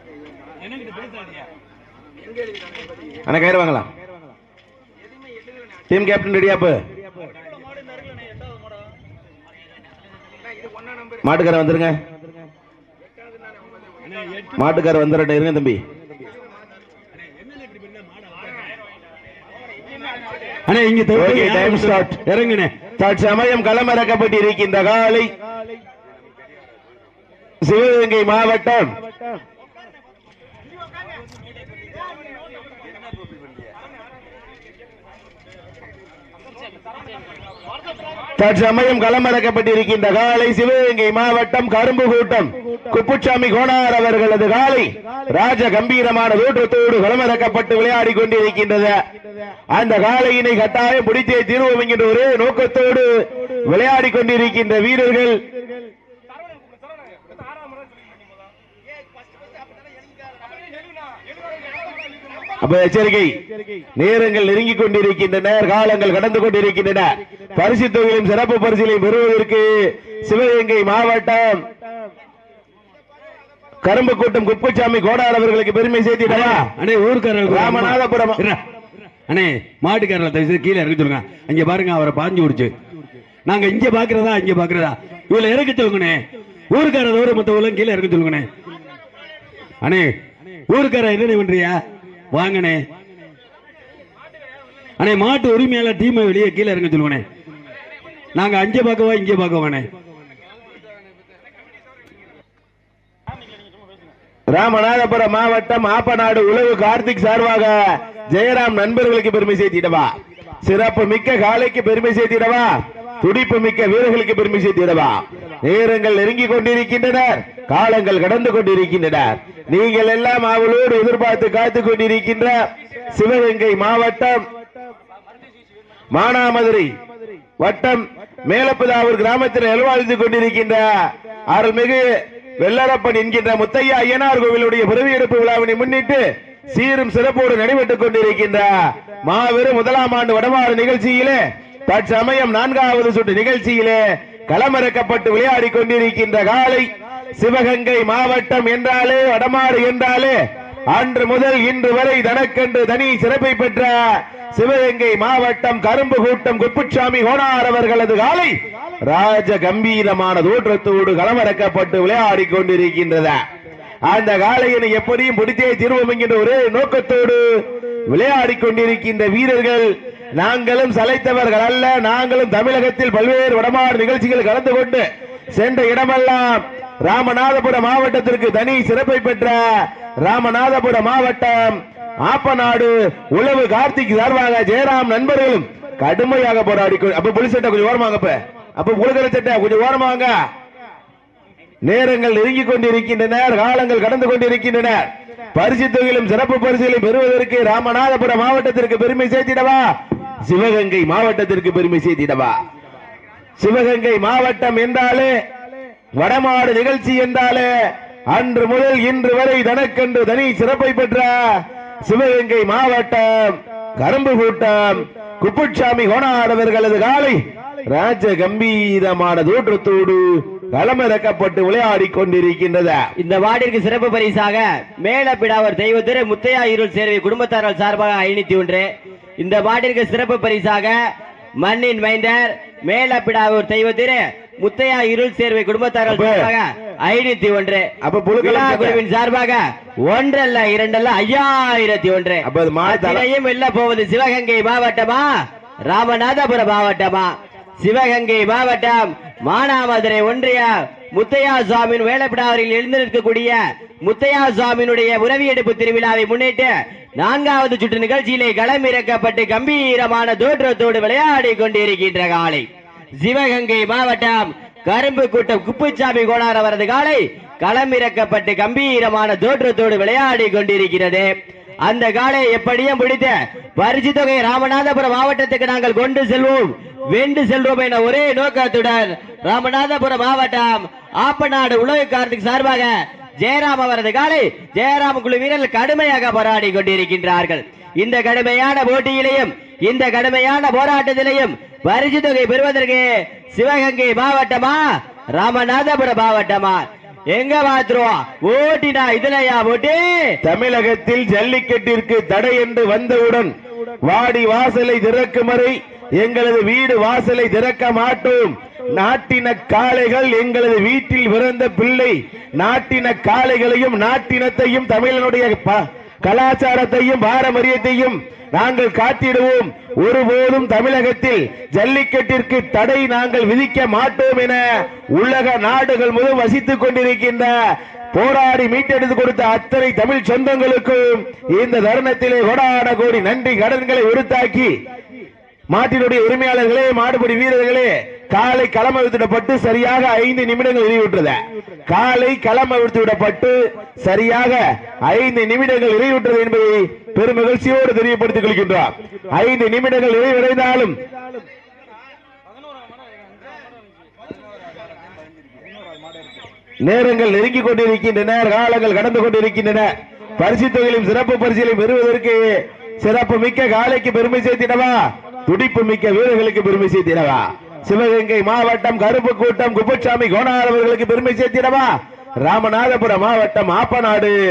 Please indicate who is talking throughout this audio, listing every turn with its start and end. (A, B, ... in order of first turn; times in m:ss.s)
0:00.6-0:01.5 A
0:03.3-0:03.9 B
0:05.9-0:06.8 B
0:11.2-0:12.0 B
0:14.1-0:14.5 A
0:14.6-0:15.8 B
0:17.8-0:18.5 A
0:20.7-0:22.7 A
0:21.2-0:22.2 B
0:23.0-0:25.3 B
0:27.6-0:28.9 B
0:38.4-0:49.0 B
0:49.7-0:53.1 B
0:53.7-0:55.4 B
1:02.6-1:03.4 B
1:04.0-1:09.7 B
1:10.3-1:11.6 B
1:13.8-1:16.7 B
1:16.3-1:18.6 A
1:17.5-1:18.4 B
1:19.3-1:22.7 A
1:23.5-1:28.5 A
1:29.8-1:30.1 A
1:30.7-1:31.8 A
1:32.3-1:32.8 A
1:35.0-1:37.2 A
1:38.4-1:39.9 A
1:44.5-1:47.8 B
1:48.3-1:50.1 B
1:50.6-2:02.6 B
2:03.1-2:04.4 B
2:06.1-2:06.9 B
2:07.6-2:10.8 B
2:11.5-2:12.1 B
2:12.6-2:18.7 B
2:19.3-2:24.0 B
2:24.5-2:26.9 B
2:27.4-2:30.4 B
2:30.9-2:34.0 B
2:34.6-2:38.5 B
2:39.1-2:43.4 B
2:44.1-2:47.4 B
2:48.1-2:59.6 B
3:00.2-3:10.4 B
3:11.8-3:19.8 B
3:20.5-3:22.5 B
3:23.6-3:25.3 B
3:26.2-3:27.7 B
3:28.3-3:31.4 B
3:32.1-3:43.0 B
3:43.2-3:51.0 C
3:51.6-3:57.9 C
3:56.1-3:56.5 B
3:58.0-3:59.0 B
3:58.4-4:05.3 C
4:02.4-4:03.2 B
4:05.9-4:22.7 C
4:23.2-4:31.3 C
4:31.8-4:54.8 C
4:55.4-5:00.0 C
5:00.4-5:03.5 B
5:04.1-5:24.6 B
5:25.1-5:27.5 B
5:28.1-5:34.7 B
5:35.7-5:51.0 B
5:56.8-6:02.4 B
6:03.0-6:14.4 B